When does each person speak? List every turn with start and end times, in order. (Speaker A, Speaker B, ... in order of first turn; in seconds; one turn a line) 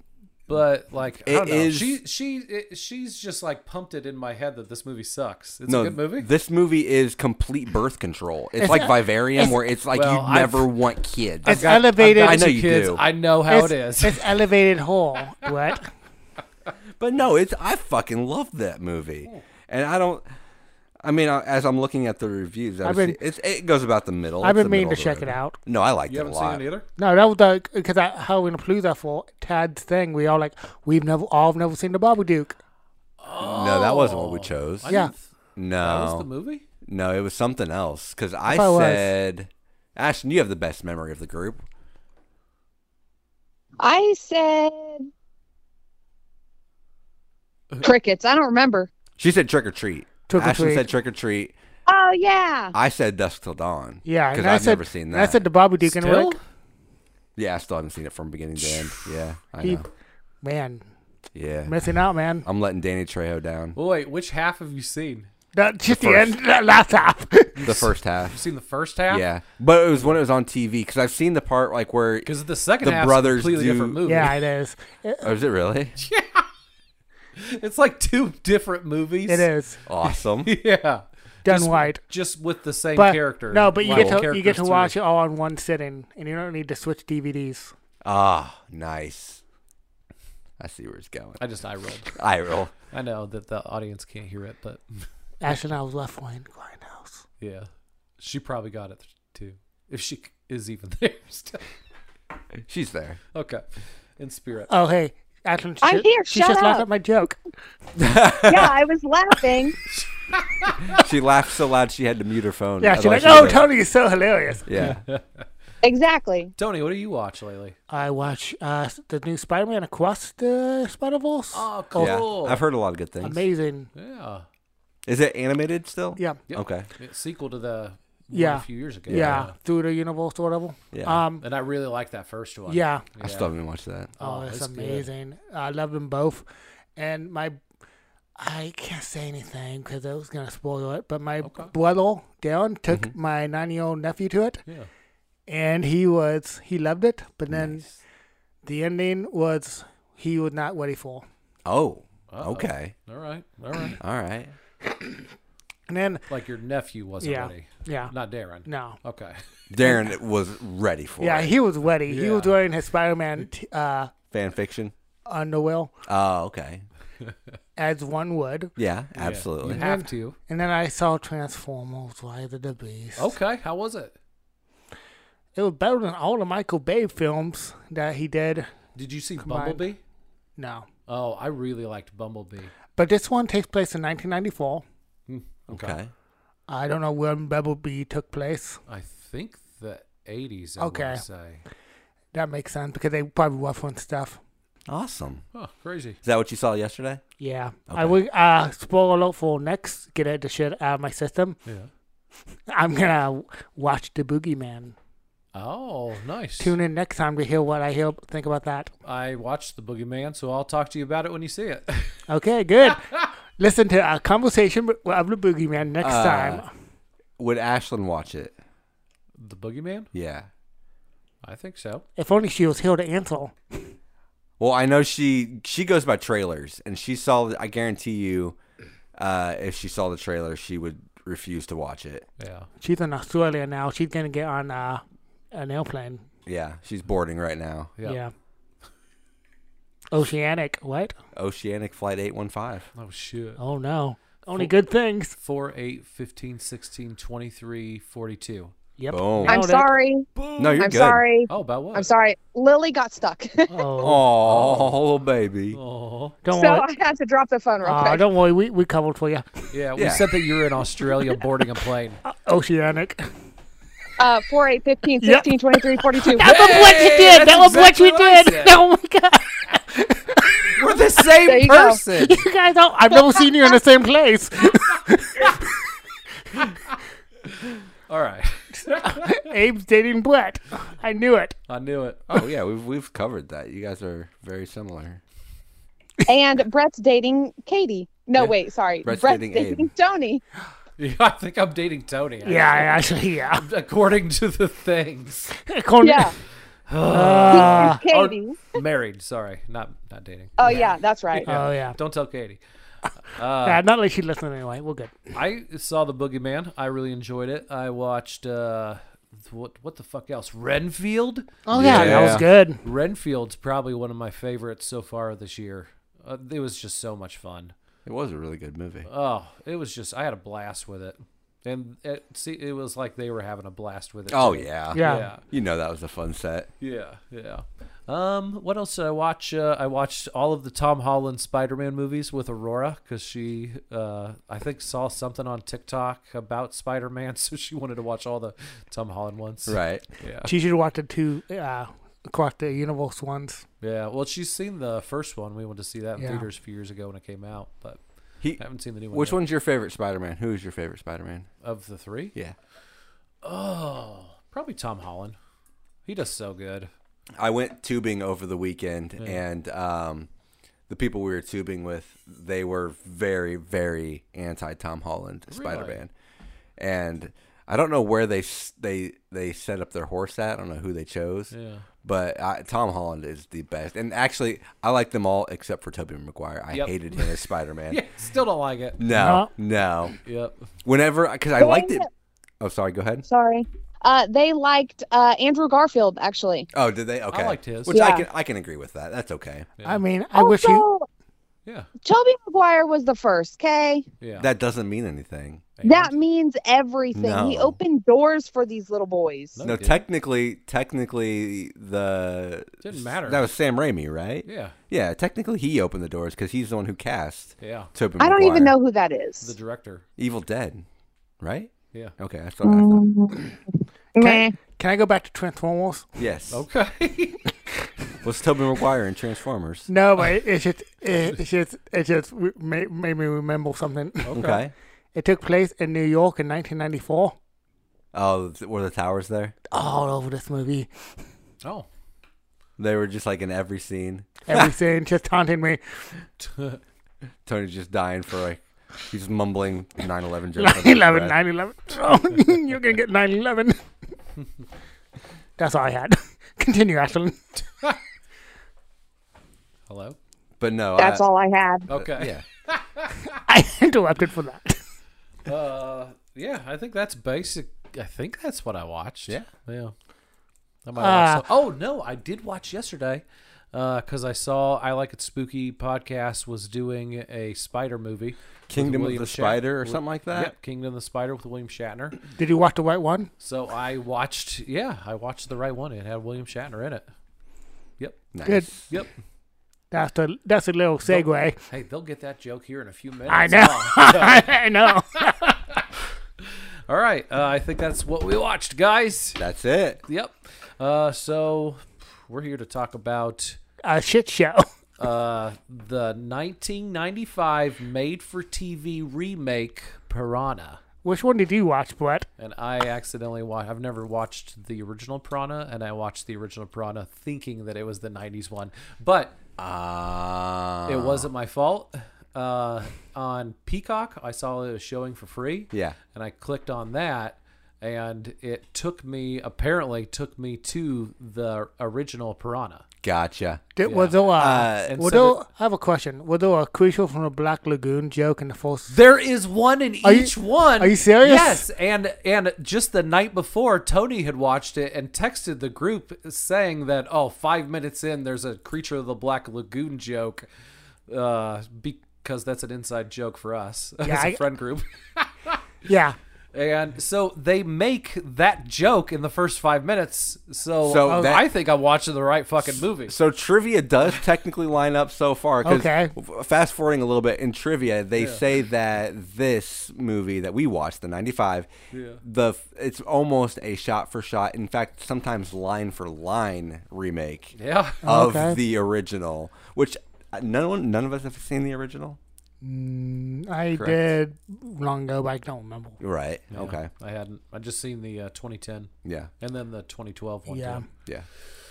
Speaker A: 0.5-6.3
Speaker B: 1.2-2.0
Speaker B: 5.7-13.0
Speaker C: 8.6-9.6
Speaker A: 9.9-10.7
Speaker A: 11.4-14.3
Speaker C: 11.4-12.6
Speaker C: 13.5-15.9
Speaker B: 17.0-20.2
Speaker B: 21.0-26.6
Speaker C: 22.8-23.2
Speaker C: 24.4-25.6
Speaker A: 26.1-26.9
Speaker C: 27.0-32.6
Speaker A: 33.2-35.2
Speaker B: 33.4-35.0
Speaker B: 35.6-36.3
Speaker A: 35.8-36.6
Speaker B: 36.9-41.6
Speaker C: 38.5-39.1
Speaker D: 43.8-45.1
Speaker D: 47.8-48.9
Speaker B: 49.2-51.5
Speaker C: 50.3-50.9
Speaker D: 51.9-52.8
Speaker B: 52.7-55.4
Speaker C: 54.0-56.4
Speaker A: 55.8-56.4
Speaker B: 57.4-59.9
Speaker C: 60.4-60.9
Speaker B: 61.3-61.8
Speaker C: 61.7-62.5
Speaker B: 62.5-63.8
Speaker A: 63.8-65.3
Speaker C: 65.5-67.8
Speaker B: 65.9-66.4
Speaker A: 67.6-69.3
Speaker B: 67.7-68.4
Speaker B: 69.1-72.3
Speaker A: 72.2-74.4
Speaker B: 72.8-74.0
Speaker C: 74.0-75.3
Speaker B: 75.2-76.0
Speaker A: 76.0-76.5
Speaker A: 77.4-79.5
Speaker C: 79.3-79.8
Speaker B: 79.9-80.5
Speaker A: 80.0-85.0
Speaker C: 81.5-82.0
Speaker C: 83.0-87.7
Speaker B: 83.9-84.2
Speaker B: 88.0-89.4
Speaker B: 90.6-91.4
Speaker A: 91.4-92.2
Speaker B: 92.1-92.7
Speaker A: 92.9-95.1
Speaker C: 95.4-97.2
Speaker A: 97.4-101.6
Speaker B: 102.7-103.2
Speaker A: 103.3-103.6
Speaker A: 104.2-104.7
Speaker C: 104.7-107.4
Speaker D: 105.8-106.9
Speaker B: 108.0-108.8
Speaker D: 108.5-109.8
Speaker A: 109.9-111.1
Speaker B: 110.8-113.7
Speaker C: 112.8-114.7
Speaker B: 114.7-115.0
Speaker A: 114.7-115.4
Speaker D: 115.8-116.5
Speaker A: 116.6-117.8
Speaker C: 117.9-122.2
Speaker A: 121.5-122.6
Speaker B: 122.0-123.4
Speaker C: 123.2-123.9
Speaker A: 124.0-124.5
Speaker B: 125.1-126.9
Speaker A: 126.5-129.5
Speaker C: 128.3-131.4
Speaker B: 129.1-129.5
Speaker B: 130.9-131.2
Speaker A: 131.4-133.5
Speaker C: 132.7-133.0
Speaker B: 133.2-134.1
Speaker A: 134.2-135.1
Speaker C: 134.2-136.4
Speaker C: 137.0-137.6
Speaker C: 138.4-144.6
Speaker A: 141.4-141.7
Speaker C: 145.5-147.8
Speaker B: 147.5-147.8
Speaker C: 148.6-151.2
Speaker B: 151.7-152.9
Speaker A: 152.3-154.0
Speaker B: 154.0-154.5
Speaker C: 155.9-156.2
Speaker A: 156.3-159.4
Speaker C: 157.2-158.1
Speaker C: 158.7-159.0
Speaker B: 159.7-161.5
Speaker C: 159.8-160.1
Speaker C: 161.2-164.1
Speaker A: 162.1-162.6
Speaker B: 164.3-164.9
Speaker C: 165.3-165.9
Speaker B: 166.1-166.8
Speaker C: 167.8-168.7
Speaker B: 168.8-169.8
Speaker A: 169.2-170.4
Speaker C: 169.7-173.3
Speaker A: 173.2-174.1
Speaker C: 175.6-178.7
Speaker A: 178.9-180.0
Speaker C: 179.4-179.8
Speaker C: 180.6-180.9
Speaker A: 181.1-182.7
Speaker C: 183.0-184.8
Speaker A: 185.3-186.0
Speaker B: 185.7-186.1
Speaker C: 186.7-188.8
Speaker A: 188.9-191.6
Speaker C: 190.8-191.2
Speaker C: 192.3-194.4
Speaker B: 194.9-195.4
Speaker A: 195.5-196.2
Speaker B: 196.2-197.2
Speaker C: 197.4-201.6
Speaker B: 197.9-198.2
Speaker C: 202.7-204.9
Speaker A: 205.5-206.8
Speaker C: 206.6-208.9
Speaker A: 209.0-212.2
Speaker C: 212.3-216.7
Speaker B: 216.0-216.6
Speaker B: 217.4-218.5
Speaker A: 219.4-220.1
Speaker B: 220.1-220.5
Speaker A: 221.4-222.1
Speaker C: 222.2-223.6
Speaker B: 224.6-228.6
Speaker B: 229.2-232.3
Speaker A: 232.4-232.7
Speaker C: 232.8-236.2
Speaker B: 236.5-237.9
Speaker C: 238.0-238.3
Speaker C: 240.1-241.2
Speaker B: 241.3-242.9
Speaker A: 243.0-243.6
Speaker C: 243.6-245.4
Speaker A: 245.4-248.7
Speaker C: 249.0-249.9
Speaker B: 249.1-249.6
Speaker D: 249.5-253.9
Speaker A: 250.4-250.9
Speaker B: 250.6-251.2
Speaker A: 251.5-252.1
Speaker C: 253.7-254.3
Speaker B: 254.0-255.8
Speaker A: 254.4-255.0
Speaker A: 255.7-256.4
Speaker C: 256.4-256.9
Speaker D: 256.5-258.2
Speaker C: 257.8-259.6
Speaker A: 259.7-262.2
Speaker B: 260.0-260.3
Speaker C: 262.3-263.3
Speaker D: 264.2-266.5
Speaker C: 265.2-270.8
Speaker A: 266.4-268.8
Speaker A: 270.7-272.5
Speaker D: 271.4-272.0
Speaker C: 272.1-275.8
Speaker A: 276.6-276.9
Speaker A: 277.5-279.4
Speaker C: 279.0-281.6
Speaker A: 281.7-282.2
Speaker B: 282.3-285.2
Speaker D: 286.3-290.4
Speaker B: 289.0-289.9
Speaker A: 291.0-293.0
Speaker C: 292.4-293.6
Speaker A: 293.6-295.5
Speaker C: 295.6-296.3
Speaker D: 296.0-296.4
Speaker A: 296.9-302.6
Speaker C: 297.1-298.0
Speaker D: 297.5-298.6
Speaker D: 300.6-301.5
Speaker C: 301.4-302.0
Speaker A: 303.3-303.8
Speaker C: 303.6-305.2
Speaker A: 305.3-317.7
Speaker C: 311.7-312.8
Speaker B: 311.7-312.5
Speaker B: 318.1-319.1
Speaker A: 319.1-325.4
Speaker B: 324.3-326.7
Speaker C: 324.9-325.3
Speaker A: 326.8-340.5
Speaker B: 339.7-340.1
Speaker C: 340.4-343.6
Speaker A: 343.8-348.0
Speaker C: 346.2-346.5
Speaker B: 348.4-351.5
Speaker A: 348.6-349.4
Speaker A: 351.6-352.3
Speaker A: 353.4-355.4
Speaker A: 356.1-356.9
Speaker B: 357.4-360.3
Speaker B: 360.9-366.1
Speaker A: 365.5-366.0
Speaker B: 366.8-371.5
Speaker A: 371.5-371.9
Speaker B: 372.0-378.0
Speaker A: 376.7-377.4
Speaker A: 377.9-379.0
Speaker B: 379.0-380.2
Speaker C: 379.1-379.5
Speaker A: 380.3-380.6
Speaker B: 380.9-382.1
Speaker D: 381.6-382.1
Speaker B: 382.6-383.2
Speaker D: 383.3-386.7
Speaker B: 386.7-389.7
Speaker A: 387.3-388.0
Speaker D: 387.9-388.3
Speaker C: 389.9-390.9
Speaker D: 390.4-391.1
Speaker D: 392.0-394.1
Speaker A: 394.2-394.5
Speaker B: 394.4-395.6
Speaker A: 395.8-396.1
Speaker D: 395.8-399.6
Speaker B: 397.1-397.8
Speaker A: 399.6-400.0
Speaker B: 399.6-408.7
Speaker A: 402.8-403.4
Speaker A: 404.4-404.8
Speaker A: 407.6-407.9
Speaker D: 408.2-409.5
Speaker A: 409.4-410.0
Speaker B: 410.2-410.9
Speaker B: 411.4-413.0
Speaker D: 412.6-413.6
Speaker D: 414.2-414.5
Speaker C: 414.2-416.1
Speaker B: 416.2-416.6
Speaker A: 416.5-417.4
Speaker B: 418.2-419.9
Speaker C: 419.9-424.3
Speaker A: 424.2-424.6
Speaker B: 424.3-424.7
Speaker C: 425.1-427.4
Speaker B: 428.1-429.6
Speaker C: 429.7-430.9
Speaker B: 432.8-434.7
Speaker C: 434.5-435.8
Speaker A: 436.4-436.8
Speaker B: 437.5-441.4
Speaker C: 440.6-443.8
Speaker C: 445.6-447.6
Speaker A: 449.9-450.2
Speaker B: 450.6-451.2
Speaker D: 451.0-451.9
Speaker A: 451.9-453.2
Speaker B: 451.9-452.4
Speaker C: 453.5-454.8
Speaker A: 455.5-459.9
Speaker A: 460.9-472.2
Speaker C: 461.0-461.4
Speaker B: 468.7-470.5
Speaker C: 472.4-473.3
Speaker A: 473.4-477.1
Speaker A: 478.0-478.3
Speaker B: 478.3-478.9
Speaker C: 478.4-478.7
Speaker C: 479.9-481.6
Speaker A: 481.1-485.8
Speaker C: 483.3-485.4
Speaker A: 486.4-489.4
Speaker B: 489.4-490.0
Speaker A: 490.1-493.6
Speaker C: 493.8-494.7
Speaker A: 495.0-500.8
Speaker C: 501.0-502.3
Speaker A: 502.4-509.4
Speaker B: 509.6-511.3
Speaker A: 510.9-522.9
Speaker B: 515.7-516.0
Speaker B: 523.0-523.7
Speaker C: 523.8-529.0
Speaker A: 523.9-524.2
Speaker B: 524.3-525.0
Speaker A: 524.8-525.4
Speaker A: 528.9-540.5
Speaker C: 530.0-531.7
Speaker A: 541.1-545.6
Speaker C: 544.0-544.4
Speaker C: 545.9-546.2
Speaker A: 546.5-553.2
Speaker B: 550.8-551.5
Speaker C: 551.1-551.4
Speaker B: 553.0-561.7
Speaker C: 555.6-556.1
Speaker A: 558.2-558.4
Speaker A: 561.9-562.2
Speaker B: 562.2-572.2
Speaker A: 567.6-568.0
Speaker C: 568.0-568.6
Speaker C: 572.6-576.0
Speaker B: 573.7-574.1
Speaker B: 576.0-576.9
Speaker A: 576.5-580.9
Speaker B: 579.0-579.3
Speaker C: 580.5-580.8